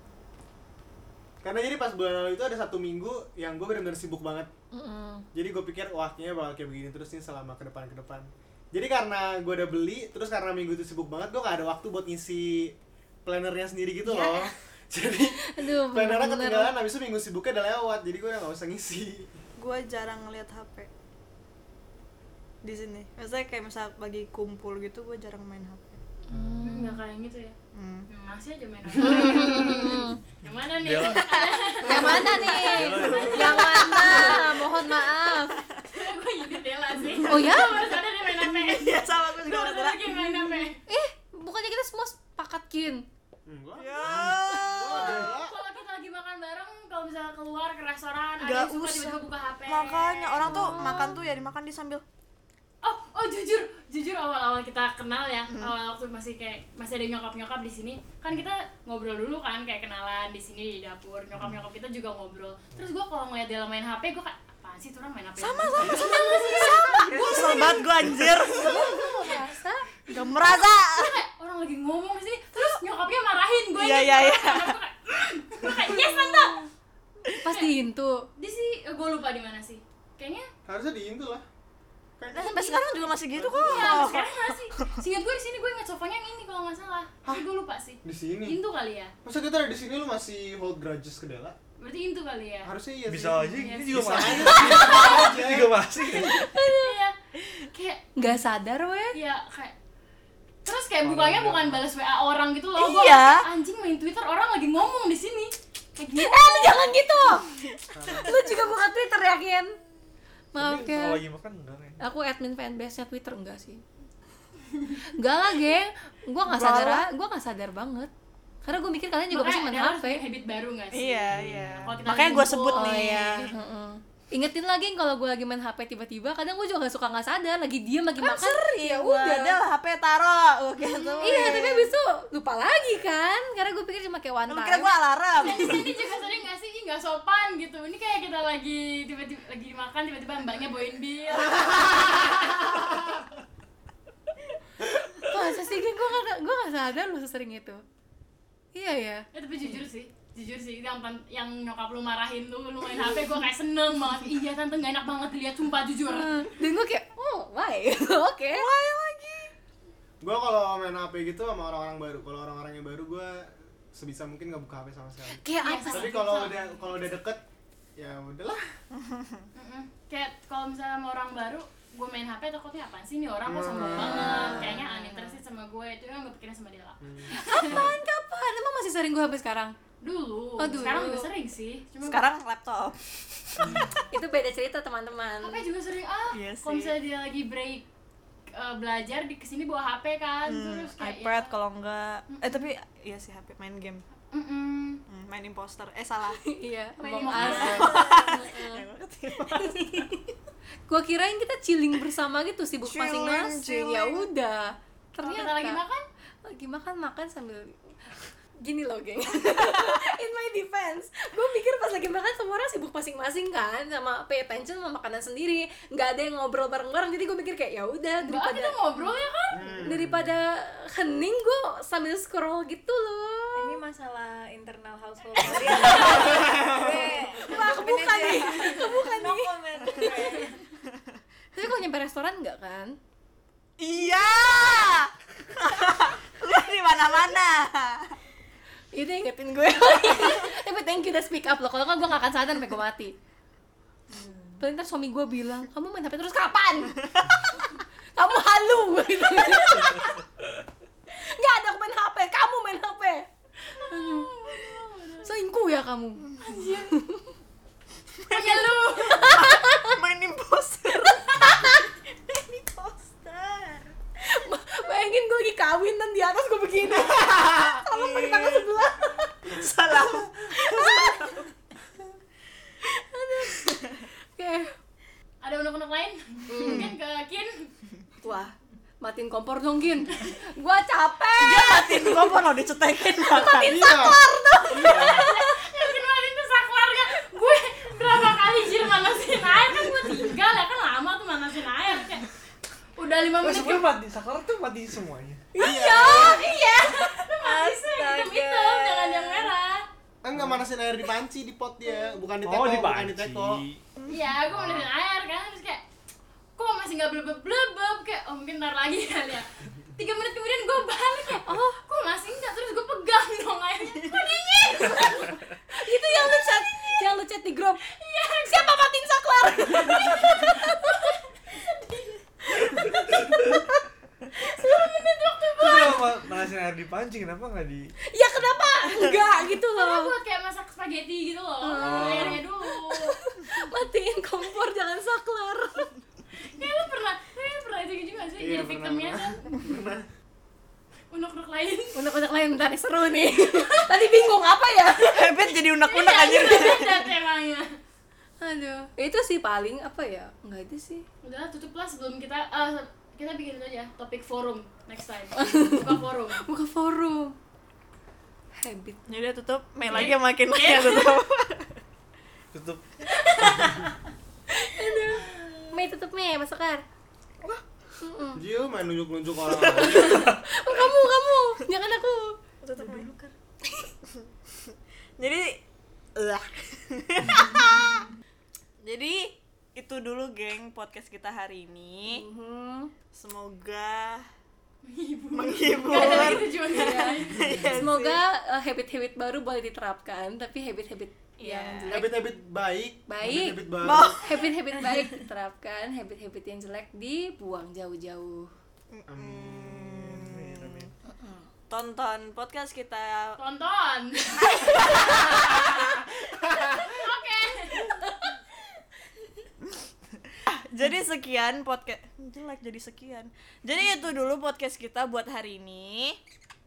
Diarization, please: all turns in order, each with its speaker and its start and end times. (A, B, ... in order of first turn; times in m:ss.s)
0:01.4-0:04.5 A
0:04.7-0:05.3 B
0:05.3-0:19.3 A
0:14.0-0:14.5 B
0:15.4-0:16.7 B
0:19.6-0:20.9 C
0:22.6-0:26.0 C
0:26.3-0:27.0 B
0:26.6-0:27.6 D
0:27.7-0:28.1 C
0:28.1-0:34.4 D
0:28.9-0:30.2 B
0:30.5-0:33.5 E
0:31.0-0:35.6 B
0:32.1-0:35.0 C
0:33.0-0:33.3 A
0:35.8-0:40.8 D
0:37.1-0:40.7 C
0:37.2-0:38.0 B
0:40.9-0:43.0 B
0:43.4-0:45.6 A
0:43.8-0:45.3 C
0:44.8-0:51.0 D
0:48.4-0:52.0 C
0:50.6-0:51.2 B
0:52.8-1:07.8 D
0:55.5-0:55.7 C
1:05.4-1:09.1 C
1:05.8-1:10.0 B
1:09.2-1:09.5 D
1:10.1-1:11.2 C
1:10.7-1:16.7 D
1:13.8-1:14.8 C
1:15.6-1:16.1 C
1:16.1-1:16.6 B
1:17.3-1:18.3 B
1:18.4-1:20.5 D
1:20.6-1:21.4 A
1:22.2-1:22.6 A
1:22.3-1:25.0 C
1:22.4-1:23.0 D
1:23.3-1:24.0 A
1:23.6-1:29.1 D
1:28.0-1:28.6 A
1:29.2-1:31.6 A
1:31.8-1:32.7 D
1:32.6-1:35.9 A
1:33.0-1:36.5 E
1:33.4-1:35.3 D
1:36.1-1:37.0 B
1:36.7-1:38.0 D
1:38.2-1:39.2 B
1:39.1-1:39.7 D
1:40.6-1:47.0 D
1:41.0-1:41.8 E
1:42.8-1:43.4 C
1:46.1-1:49.8 B
1:47.9-1:48.4 A
1:50.5-1:51.2 B
1:50.6-1:52.0 E
1:52.0-1:53.8 B
1:55.1-1:58.1 B
1:56.4-1:57.0 C
1:58.6-2:00.2 B
1:59.3-2:01.3 D
2:00.9-2:03.5 C
2:01.3-2:02.2 E
2:01.8-2:03.0 D
2:02.3-2:09.6 B
2:08.2-2:11.9 C
2:10.8-2:14.9 B
2:14.5-2:15.9 C
2:15.4-2:22.7 D
2:25.1-2:27.8 B
2:28.7-2:29.8 B
2:29.3-2:36.3 D
2:32.9-2:33.2 B
2:36.1-2:38.7 B
2:38.5-2:39.5 C
2:40.2-2:47.4 A
2:45.3-2:46.4 B
2:45.6-2:46.9 D
2:48.0-2:48.6 A
2:48.9-2:49.5 C
2:49.6-2:57.9 D
2:53.4-2:54.8 A
2:53.8-2:55.4 C
2:57.0-2:57.9 A
2:57.3-2:59.8 B
3:00.0-3:02.3 D
3:00.6-3:01.3 B
3:02.0-3:03.9 C
3:03.6-3:03.9 A
3:03.6-3:04.1 D
3:04.1-3:05.7 B
3:05.4-3:07.8 D
3:06.3-3:06.9 C
3:08.5-3:11.5 D
3:10.4-3:14.0 C
3:12.3-3:12.7 D
3:14.3-3:15.0 D
3:15.1-3:16.4 C
3:16.4-3:18.9 B
3:17.0-3:18.2 D
3:17.1-3:20.2 C
3:20.9-3:25.8 B
3:22.8-3:24.3 C
3:25.2-3:26.0 D
3:26.4-3:38.8 B
3:38.2-3:39.8 D
3:39.5-3:40.4 A
3:39.8-3:43.8 B
3:43.5-3:50.6 F
3:45.8-3:50.5 B
3:51.5-3:53.0 B
3:53.8-3:58.1 C
3:58.9-4:03.1 B
4:04.1-4:04.6 F
4:04.6-4:07.6 B
4:08.1-4:10.2 B
4:11.1-4:14.3 B
4:13.7-4:15.3 D
4:15.2-4:17.3 B
4:16.4-4:17.0 D
4:18.2-4:23.9 C
4:18.3-4:19.3 D
4:19.2-4:19.9 B
4:21.3-4:21.9 B
4:24.2-4:29.6 B
4:27.9-4:28.7 C
4:29.4-4:31.4 C
4:30.6-4:31.4 B
4:32.9-4:34.7 B
4:35.4-4:37.7 D
4:36.5-4:36.9 B
4:38.2-4:42.4 B
4:41.4-4:45.6 C
4:43.3-4:43.8 B
4:43.6-4:45.2 A
4:44.7-4:45.3 B
4:45.1-4:52.3 D
4:53.0-4:53.9 D
4:53.4-4:55.4 E
4:55.6-4:56.5 A
4:55.6-4:56.8 B
4:55.6-4:59.8 D
4:57.0-4:59.5 C
5:00.2-5:03.6 A
5:00.3-5:00.6 E
5:02.4-5:03.8 E
5:04.0-5:04.3 C
5:04.1-5:05.8 D
5:04.5-5:04.9 E
5:06.6-5:17.0 D
5:11.4-5:11.8 B
5:14.7-5:17.9 B
5:17.9-5:23.1 D
5:18.4-5:21.0 B
5:24.4-5:26.3 D
5:25.6-5:27.9 E
5:28.1-5:30.1 B
5:29.8-5:33.2 D
5:31.6-5:35.9 B
5:31.8-5:32.4 E
5:36.4-5:39.5 D
5:38.4-5:40.1 A
5:41.1-5:42.0 D
5:41.9-5:45.4 B
5:45.0-5:47.1 C
5:45.8-5:47.8 D
5:48.4-5:51.0 B
5:51.2-5:56.4 D
5:55.3-5:57.4 B
5:58.6-5:59.0 B
5:59.1-6:01.8 C
5:59.8-6:01.2 D
5:59.9-6:00.2 B
6:02.5-6:02.8 E
6:03.2-6:03.6 B
6:03.4-6:03.8 E
6:04.5-6:06.8 B
6:08.0-6:08.4 B
6:08.3-6:10.4 A
6:09.7-6:12.4 B
6:12.6-6:13.1 C
6:12.8-6:13.3 F
6:13.6-6:13.9 B
6:15.2-6:15.6 C
6:16.2-6:18.1 C
6:18.8-6:22.2 C
6:22.0-6:22.9 B
6:23.1-6:24.3 C
6:24.8-6:27.7 D
6:25.3-6:28.2 C
6:25.9-6:32.3 B
6:31.4-6:32.0 C
6:31.9-6:34.2 A
6:33.1-6:38.5 B
6:33.8-6:35.3 C
6:38.9-6:40.9 C
6:39.1-6:40.2 A
6:40.1-6:40.9 E
6:41.1-6:41.5 B
6:41.7-6:43.4 C
6:43.4-6:44.8 D
6:44.3-6:46.0 C
6:46.7-6:48.1 D
6:50.3-6:56.2 C